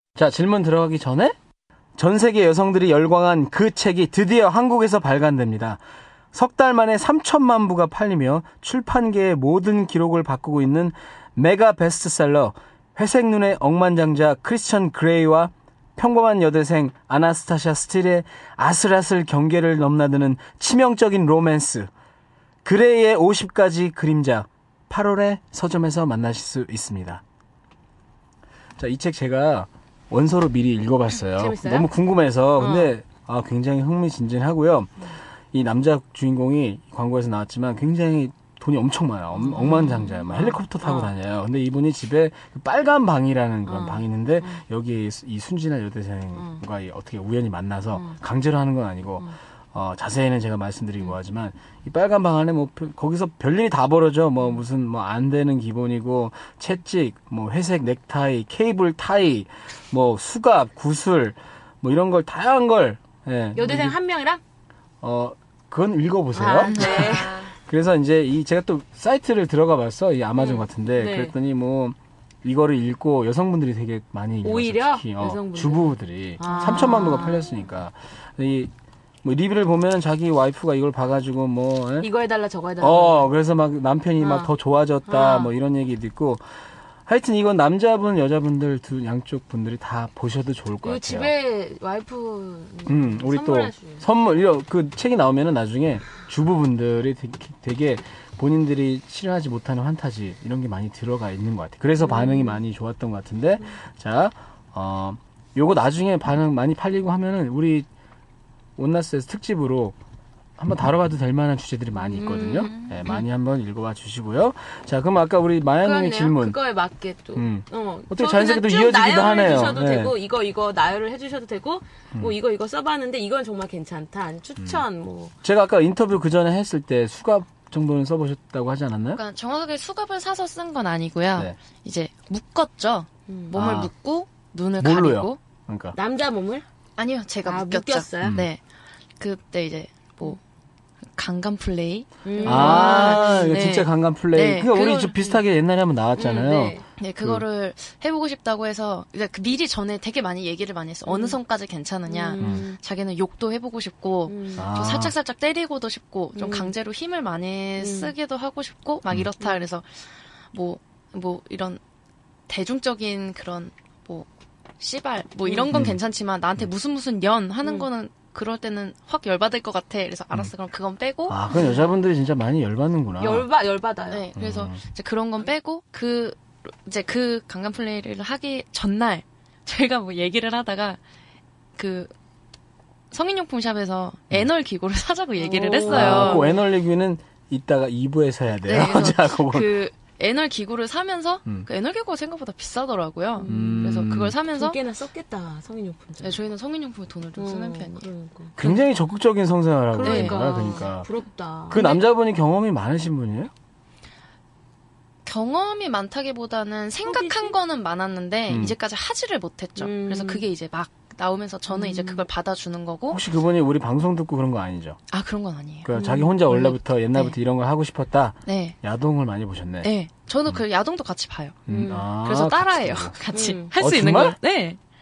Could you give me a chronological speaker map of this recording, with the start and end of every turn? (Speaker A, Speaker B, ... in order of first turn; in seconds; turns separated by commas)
Speaker A: 0.1-1.3, Speaker A: 2.0-5.8, Speaker A: 6.3-21.9, Speaker A: 22.6-27.2, Speaker A: 28.8-64.0, Speaker B: 31.4-31.9, Speaker B: 32.6-32.9, Speaker B: 39.3-41.1, Speaker B: 43.7-44.6, Speaker B: 63.5-64.4, Speaker A: 65.0-78.7, Speaker B: 66.3-67.4, Speaker C: 66.7-67.5, Speaker B: 70.4-71.3, Speaker B: 74.4-77.6, Speaker A: 79.2-82.1, Speaker B: 82.0-83.3, Speaker A: 82.8-86.4, Speaker B: 84.2-84.5, Speaker B: 85.0-85.5, Speaker A: 87.1-91.3, Speaker B: 90.8-94.0, Speaker A: 92.8-107.9, Speaker B: 102.0-102.5, Speaker A: 108.8-110.0, Speaker A: 110.6-116.6, Speaker B: 112.2-113.2, Speaker C: 112.6-113.2, Speaker B: 115.8-125.3, Speaker A: 117.3-120.1, Speaker A: 124.6-124.8, Speaker A: 125.4-129.2, Speaker C: 129.1-135.4, Speaker A: 133.5-133.9, Speaker A: 134.8-135.9, Speaker B: 135.9-136.6, Speaker C: 137.0-138.6, Speaker B: 137.4-138.4, Speaker A: 138.2-138.5, Speaker C: 139.2-140.4, Speaker C: 141.1-145.2, Speaker B: 142.2-143.5, Speaker A: 142.4-147.4, Speaker B: 146.2-146.8, Speaker C: 147.0-161.8, Speaker B: 151.1-151.4, Speaker B: 152.1-152.8, Speaker A: 152.4-152.6, Speaker B: 154.3-154.7, Speaker A: 154.5-155.1, Speaker B: 156.3-156.7, Speaker B: 157.8-158.1, Speaker C: 162.5-164.3, Speaker C: 164.8-171.4, Speaker B: 165.4-165.7, Speaker A: 165.7-166.0, Speaker A: 171.3-173.4, Speaker B: 171.5-171.8, Speaker B: 173.2-174.2, Speaker C: 174.1-181.0, Speaker A: 174.3-174.8, Speaker C: 181.8-182.1, Speaker C: 183.1-186.5, Speaker B: 185.4-186.6, Speaker A: 185.8-189.8, Speaker C: 188.6-194.8, Speaker B: 193.4-196.4, Speaker A: 193.4-194.3, Speaker C: 196.2-198.8, Speaker B: 197.4-198.5, Speaker A: 198.6-201.1, Speaker B: 199.9-201.8, Speaker C: 200.0-200.6, Speaker A: 201.7-203.5, Speaker C: 201.7-202.0, Speaker C: 205.2-213.2, Speaker B: 207.0-207.5, Speaker A: 208.5-208.8, Speaker B: 209.8-210.5, Speaker B: 211.7-212.2, Speaker A: 213.1-215.0, Speaker C: 215.1-215.9, Speaker A: 215.8-219.9, Speaker B: 215.9-216.3, Speaker C: 216.5-217.3, Speaker C: 218.4-218.8, Speaker C: 219.8-221.6, Speaker A: 221.7-224.4, Speaker B: 221.7-222.1, Speaker C: 222.2-224.8, Speaker B: 223.3-223.7